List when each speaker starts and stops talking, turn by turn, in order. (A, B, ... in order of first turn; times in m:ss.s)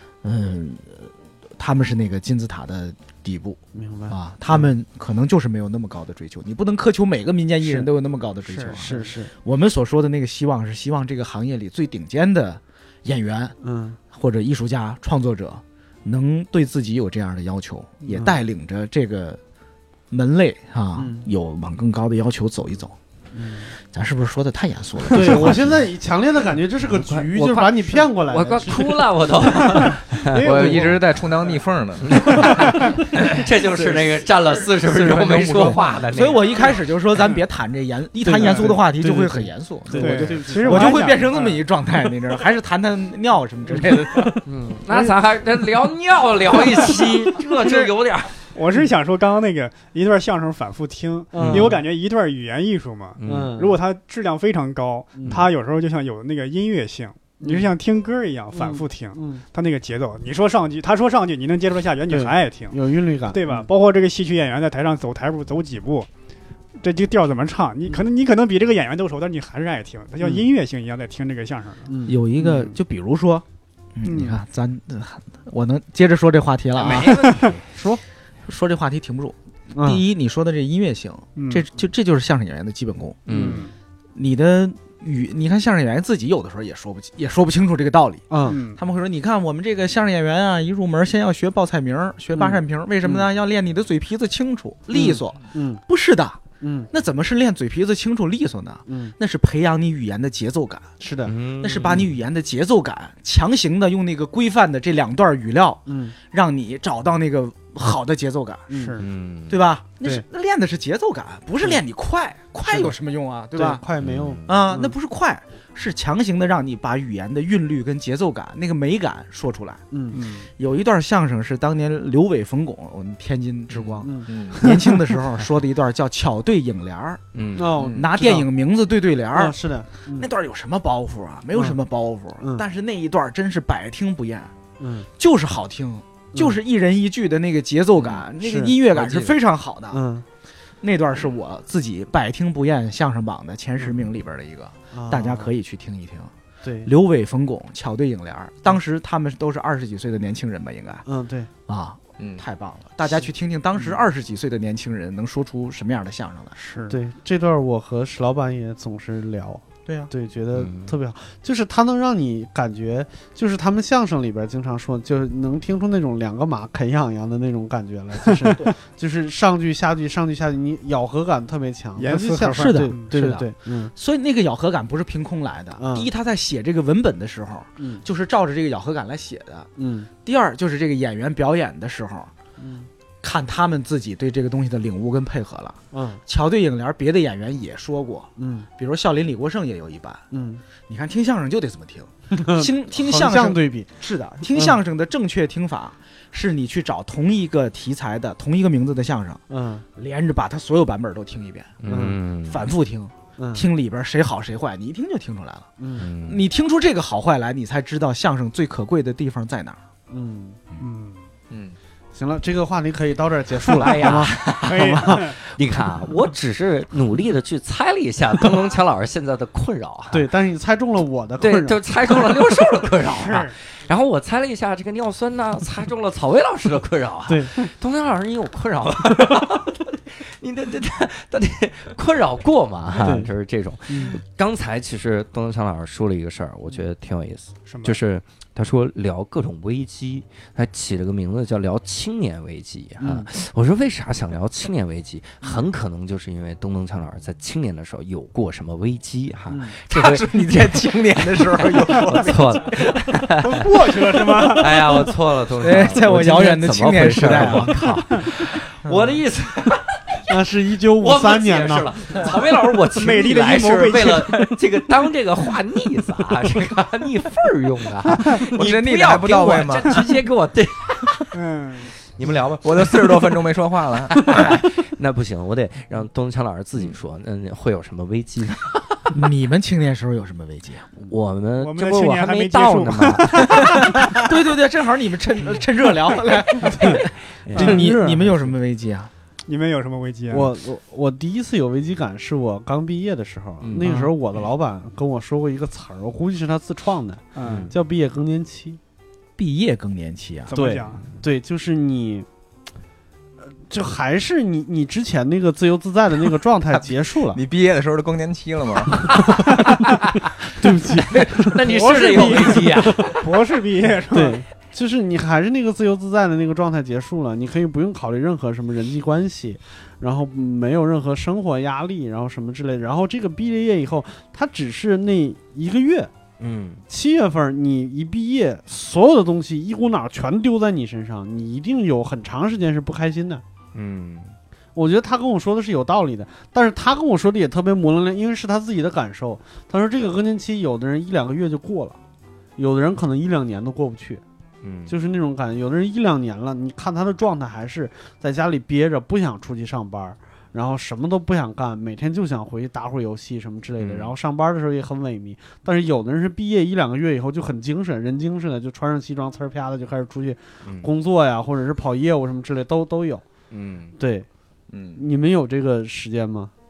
0:00.2-0:13.6 A
0:03.8-0:04.7 B
0:07.6-0:07.9 B
0:08.5-0:09.0 C
0:08.7-0:09.3 B
0:13.6-0:14.0 B
0:14.1-0:19.4 A
0:18.1-0:18.4 B
0:20.1-0:23.0 A
0:21.0-0:21.3 B
0:23.3-0:23.7 B
0:23.8-0:25.8 A
0:25.1-0:30.0 B
0:26.9-0:30.9 D
0:29.6-0:31.0 C
0:30.4-0:32.8 E
0:32.0-0:36.7 D
0:32.7-0:32.9 C
0:35.0-0:44.4 A
0:38.2-0:41.6 B
0:38.4-0:38.7 C
0:39.9-0:41.5 C
0:43.7-0:44.4 B
0:44.4-0:48.4 D
0:47.6-0:47.9 C
0:48.5-1:02.8 C
0:51.3-0:51.8 B
0:51.4-0:51.8 D
0:53.2-0:53.5 D
0:53.2-0:53.8 B
0:55.1-0:55.5 B
0:57.4-0:57.7 B
0:58.5-0:59.4 B
1:02.1-1:03.7 B
1:03.3-1:06.1 C
1:06.8-1:11.9 C
1:10.2-1:10.5 B
1:11.9-1:12.8 B
1:12.1-1:17.2 A
1:14.0-1:14.4 C
1:16.8-1:17.6 D
1:17.7-1:18.0 B
1:18.5-1:23.3 A
1:19.7-1:20.0 B
1:21.4-1:21.7 C
1:23.3-1:23.6 D
1:23.3-1:23.6 B
1:23.3-1:23.7 C
1:24.2-1:40.9 A
1:28.3-1:28.6 B
1:28.5-1:28.8 C
1:32.3-1:33.3 B
1:34.9-1:35.8 B
1:36.6-1:36.9 B
1:38.9-1:39.1 B
1:41.0-1:41.4 B
1:41.2-1:42.1 D
1:41.6-1:48.8 A
1:45.9-1:46.2 B
1:48.7-1:49.0 B
1:48.7-1:49.1 C
1:49.0-1:49.6 D
1:49.5-1:53.8 A
1:52.7-1:53.0 B
1:53.5-1:54.9 B
1:54.0-1:54.6 D
1:54.5-1:59.8 A
1:59.9-2:00.2 B
2:00.1-2:00.5 C
2:00.6-2:07.2 A
2:04.0-2:04.8 B
2:04.3-2:04.6 E
2:07.4-2:07.8 D
2:07.6-2:08.5 B
2:07.8-2:08.0 E
2:07.9-2:09.6 A
2:09.3-2:10.3 B
2:10.1-2:14.5 A
2:14.8-2:15.1 B
2:15.2-2:20.0 A
2:16.3-2:16.6 B
2:18.2-2:19.4 B
2:19.9-2:20.2 B
2:20.8-2:26.3 A
2:24.9-2:25.5 B
2:26.6-2:26.9 B
2:26.8-2:31.0 A
2:31.1-2:31.5 B
2:31.7-2:36.6 A
2:33.8-2:34.0 B
2:36.6-2:37.0 C
2:36.9-2:53.9 B
2:39.9-2:40.1 A
2:40.5-2:41.0 D
2:52.0-2:53.1 C
2:52.6-2:59.7 A
2:55.8-2:56.1 B
2:59.8-3:00.1 B
3:00.2-3:02.3 A
3:02.6-3:02.9 B
3:03.2-3:10.2 A
3:05.9-3:06.2 B
3:08.4-3:08.7 B
3:10.3-3:10.6 B
3:10.9-3:19.4 A
3:12.3-3:14.8 B
3:19.5-3:19.8 B
3:20.0-3:21.8 A
3:21.8-3:22.6 D
3:21.9-3:22.2 B
3:22.4-3:25.7 A
3:23.4-3:23.7 B
3:25.8-3:26.1 B
3:26.0-3:26.4 D
3:26.2-3:29.8 A
3:30.1-3:30.6 B
3:30.8-3:31.2 C
3:31.5-3:31.8 E
3:32.1-3:35.4 B
3:33.7-3:40.3 D
3:34.7-3:35.4 C
3:40.1-3:41.8 B
3:41.4-4:13.7 D
3:43.1-3:43.6 C
3:47.3-3:47.6 B
3:53.0-3:53.3 B
3:53.9-3:54.2 B
3:57.7-3:58.0 C
4:03.0-4:03.3 B
4:09.5-4:09.8 B
4:09.9-4:13.0 A
4:13.3-4:14.9 C
4:13.6-4:14.8 A
4:14.4-4:20.3 D
4:15.6-4:18.0 A
4:20.3-4:22.2 B
4:21.0-4:31.4 D
4:22.9-4:24.6 C
4:28.4-4:30.0 E
4:31.3-4:31.9 C
4:32.1-4:33.4 D
4:32.6-4:34.3 E
4:34.1-4:39.1 D
4:39.1-4:40.9 A
4:41.0-4:44.1 D
4:41.6-4:44.0 C
4:43.8-4:49.1 A
4:47.4-4:47.8 D
4:47.5-4:48.5 B
4:49.5-4:50.5 C
4:50.3-4:58.8 B
4:53.8-4:54.1 A
4:57.4-4:57.7 C
4:57.4-4:57.7 D
4:59.4-5:00.5 A
5:00.5-5:01.1 C
5:00.5-5:02.3 B
5:03.5-5:07.4 B
5:06.7-5:09.4 E
5:09.5-5:10.1 D
5:10.6-5:13.1 B
5:10.9-5:13.2 D
5:11.7-5:14.4 C
5:14.1-5:26.1 B
5:26.4-5:26.8 D
5:26.9-5:33.4 B
5:33.8-5:34.4 D
5:34.8-5:42.0 B
5:42.6-5:44.2 B
5:44.6-5:45.0 D
5:44.9-6:03.2 B
5:53.8-5:54.2 D
6:00.6-6:00.9 D
6:03.5-6:04.0 D
6:04.0-6:04.3 B
6:04.7-6:05.0 E
6:05.0-6:06.5 B